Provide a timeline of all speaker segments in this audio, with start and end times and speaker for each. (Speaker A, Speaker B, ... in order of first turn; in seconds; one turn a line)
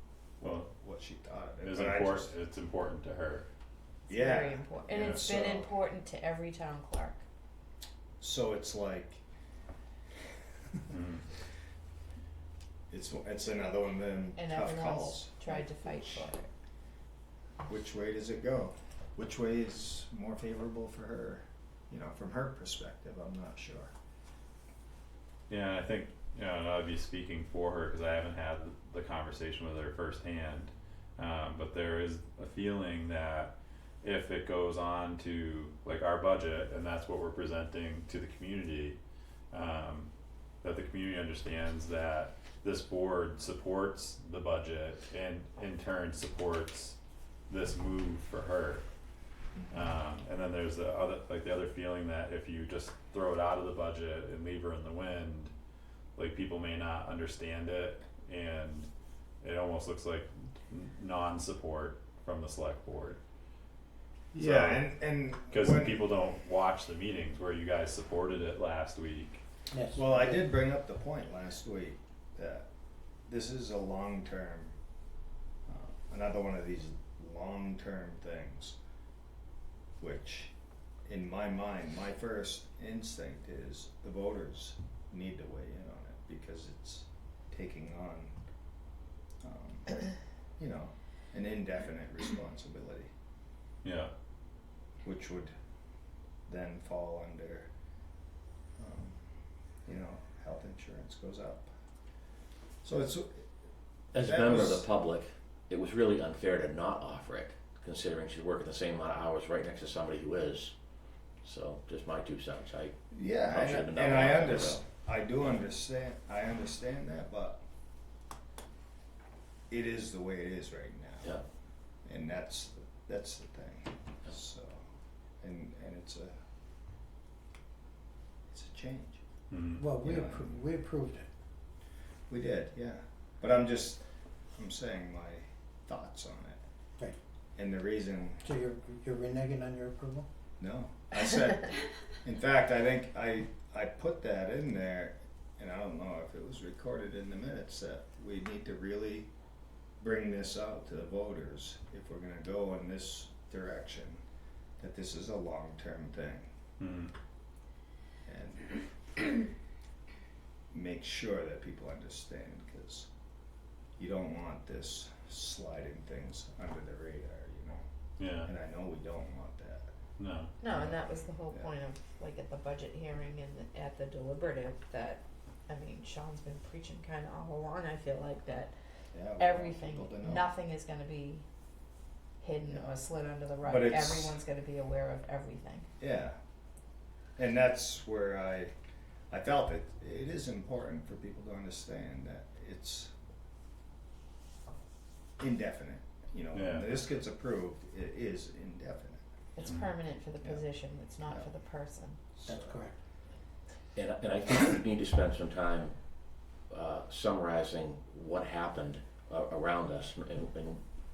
Speaker A: 0.4-0.7
Speaker B: 0.4-2.3
Speaker A: 1.6-3.4
Speaker C: 4.1-7.2
Speaker B: 4.1-5.7
Speaker A: 4.9-5.2
Speaker B: 8.2-9.2
Speaker A: 10.9-11.2
Speaker B: 12.9-16.3
Speaker C: 14.4-16.5
Speaker B: 17.6-23.9
Speaker A: 25.5-39.0
Speaker A: 39.5-40.1
Speaker A: 40.6-47.0
Speaker A: 47.5-48.9
Speaker B: 49.6-49.8
Speaker A: 49.7-55.5
Speaker A: 56.2-58.9
Speaker A: 59.4-63.2
Speaker B: 64.3-66.1
Speaker A: 64.3-65.0
Speaker A: 65.5-69.4
Speaker D: 69.7-70.4
Speaker B: 69.9-72.7
Speaker B: 73.3-74.7
Speaker B: 75.7-78.8
Speaker B: 80.0-80.5
Speaker B: 81.0-88.3
Speaker B: 89.4-93.1
Speaker A: 93.8-94.1
Speaker B: 95.0-95.5
Speaker B: 96.5-97.7
Speaker B: 98.8-99.3
Speaker B: 99.8-101.7
Speaker B: 102.8-103.5
Speaker E: 104.1-110.7
Speaker B: 104.1-104.9
Speaker E: 111.4-114.8
Speaker B: 113.1-117.6
Speaker B: 119.7-121.4
Speaker B: 122.0-124.8
Speaker B: 125.4-126.3
Speaker B: 128.5-129.2
Speaker A: 129.5-129.9
Speaker D: 129.8-131.2
Speaker B: 130.0-130.5
Speaker B: 132.3-134.0
Speaker B: 134.6-136.6
Speaker B: 137.6-138.5
Speaker D: 138.5-140.3
Speaker B: 140.6-149.3
Speaker B: 150.0-154.2
Speaker B: 154.8-156.5
Speaker A: 156.8-157.1
Speaker B: 158.2-159.5
Speaker B: 160.7-163.1
Speaker B: 164.0-167.8
Speaker A: 168.2-168.5
Speaker B: 168.4-169.9
Speaker A: 170.2-170.9
Speaker C: 170.6-178.7
Speaker B: 179.1-180.5
Speaker C: 179.4-181.4
Speaker C: 182.4-185.9
Speaker B: 182.7-183.0
Speaker B: 183.6-184.4
Speaker B: 186.0-186.4
Speaker B: 187.4-188.7
Speaker B: 189.3-193.1
Speaker B: 195.4-199.2
Speaker A: 196.5-196.9
Speaker C: 199.5-202.2
Speaker B: 200.4-200.7
Speaker B: 202.3-202.9
Speaker D: 202.4-202.9
Speaker E: 203.9-205.9
Speaker E: 206.7-210.8